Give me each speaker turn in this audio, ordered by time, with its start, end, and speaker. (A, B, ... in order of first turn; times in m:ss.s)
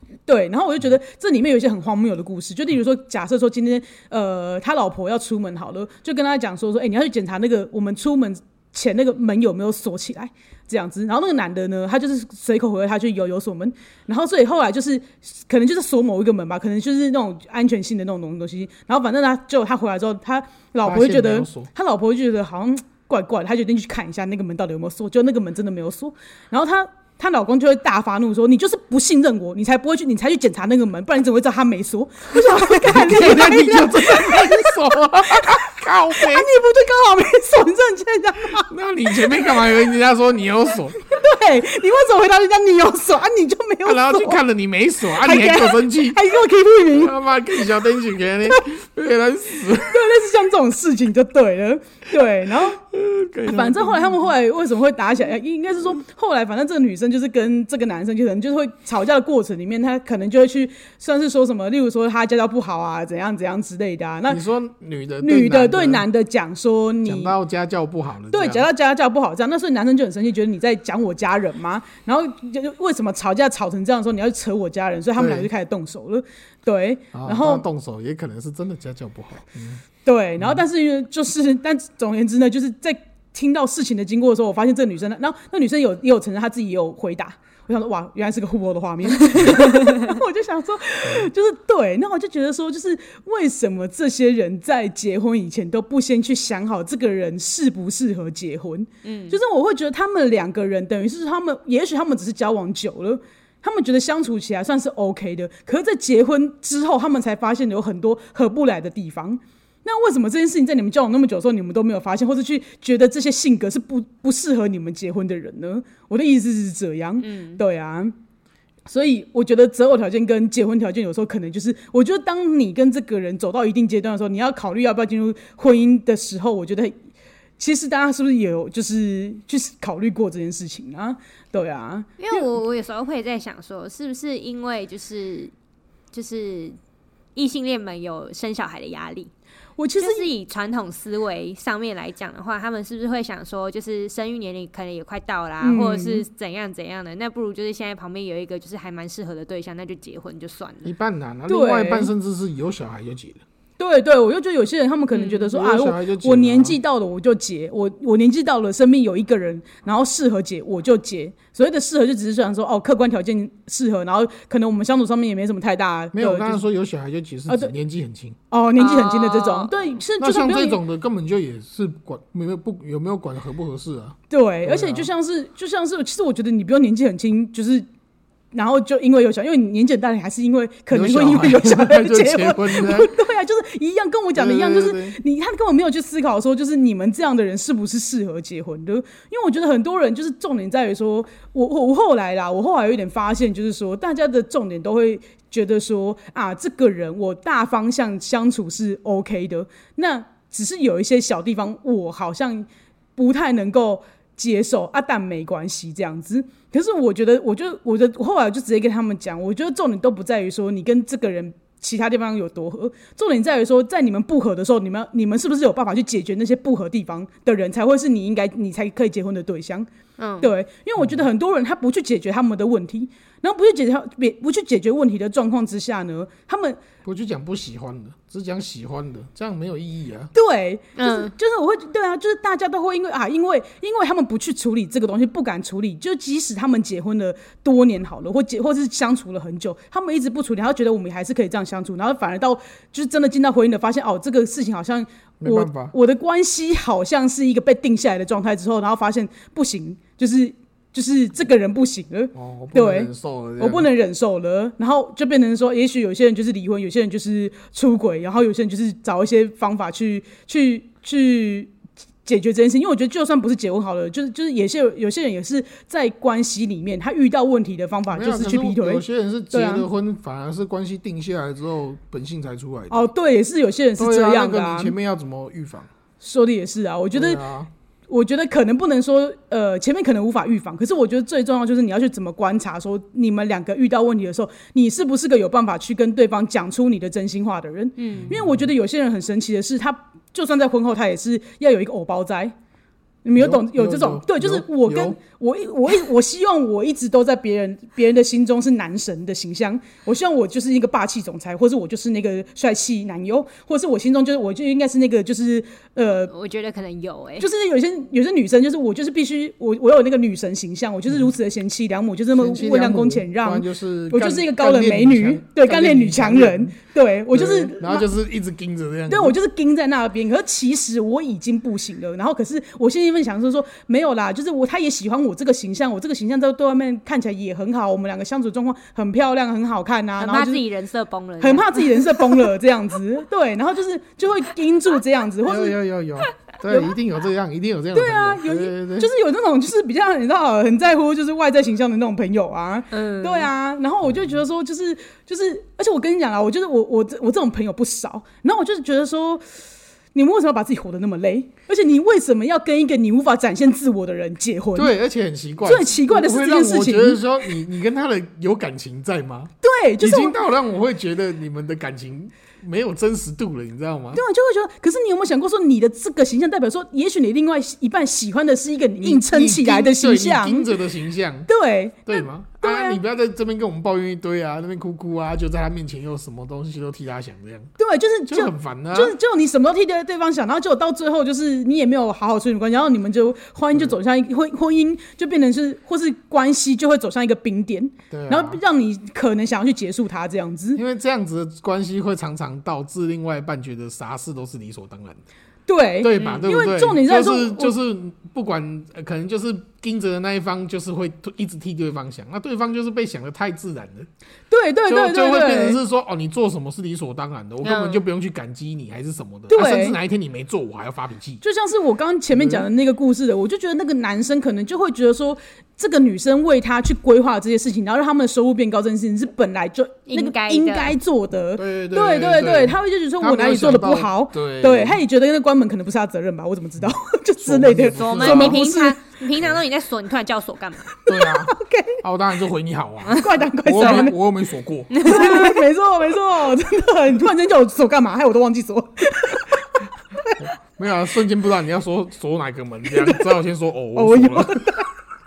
0:00.3-0:34.8 A
0:20.8-0:21.7 B
0:32.5-0:36.5 B
0:36.1-0:39.7 A
0:38.6-0:41.0 B
0:41.2-0:44.4 A
0:43.8-0:46.3 B
0:45.1-0:47.2 A
0:46.9-0:50.2 B
0:49.8-0:52.8 A
0:52.9-0:54.2 B
0:53.4-1:04.4 A
1:04.3-1:06.1 B
1:05.2-1:07.4 A
1:07.0-1:08.7 B
1:08.3-1:17.6 A
1:15.2-1:15.5 B
1:17.1-1:19.8 B
1:20.0-1:58.2 A
1:29.5-1:30.0 C
1:39.0-1:39.4 C
1:57.2-1:57.6 C
1:58.9-2:07.0 A
2:07.6-2:12.5 A
2:12.2-2:15.5 C
2:16.1-2:16.8 C
2:17.4-2:19.3 C
2:19.8-2:20.3 A
2:20.0-2:30.9 C
2:25.6-2:26.2 A
2:30.8-2:33.4 B
2:31.5-2:32.1 A
2:33.8-2:46.6 A
2:35.1-2:35.4 C
2:35.5-2:36.8 B
2:46.1-2:48.4 B
2:48.5-2:50.8 A
2:48.8-2:50.0 C
2:50.2-2:55.1 B
2:54.3-2:57.9 A
2:58.5-3:39.9 A
3:00.9-3:03.1 B
3:04.4-3:05.2 B
3:40.2-3:40.5 C
3:40.4-3:46.8 A
3:47.0-3:50.3 B
3:50.3-4:21.7 A
3:51.0-3:51.3 C
4:05.4-4:05.9 B
4:12.4-4:13.9 B
4:22.2-4:29.9 A
4:28.1-4:33.1 B
4:32.9-4:35.0 A
4:34.0-4:35.9 B
4:36.2-4:37.4 A
4:37.1-4:37.7 B
4:38.1-4:52.5 A
4:48.0-4:48.3 C
4:48.1-4:48.7 B
4:53.2-5:06.3 A
4:53.4-4:55.2 B
5:06.3-5:07.5 C
5:07.4-5:18.1 A
5:12.3-5:16.8 B
5:17.3-5:19.4 B
5:19.1-5:30.6 A
5:30.2-5:32.5 C
5:31.4-5:35.8 A
5:35.4-5:39.1 B
5:37.9-5:49.4 A
5:42.9-5:43.5 C
5:50.2-5:54.9 A
5:54.8-6:04.2 B
5:55.6-5:57.2 A
5:59.6-6:00.4 A
6:04.1-6:10.7 A
6:09.0-6:11.5 B
6:11.5-6:13.0 A
6:12.1-6:17.7 B
6:17.8-6:30.8 A
6:18.3-6:19.2 B
6:28.1-6:28.6 B
6:30.7-6:35.2 B
6:35.7-6:37.8 A
6:36.0-6:44.1 B
6:36.2-6:36.4 C
6:44.5-6:45.8 A
6:44.9-6:51.4 B
6:47.6-6:48.0 C
6:49.5-6:50.0 A
6:51.4-7:09.0 A
6:52.3-6:52.7 B
7:00.1-7:01.0 C
7:01.6-7:05.0 B
7:07.4-7:08.6 B
7:07.9-7:10.9 C
7:11.1-7:12.0 A
7:11.1-7:15.1 B
7:13.1-7:14.2 A
7:13.8-7:14.1 C
7:14.9-7:15.6 C
7:15.0-7:19.6 A
7:20.8-7:24.7 B
7:23.0-7:23.2 A
7:24.0-7:24.9 A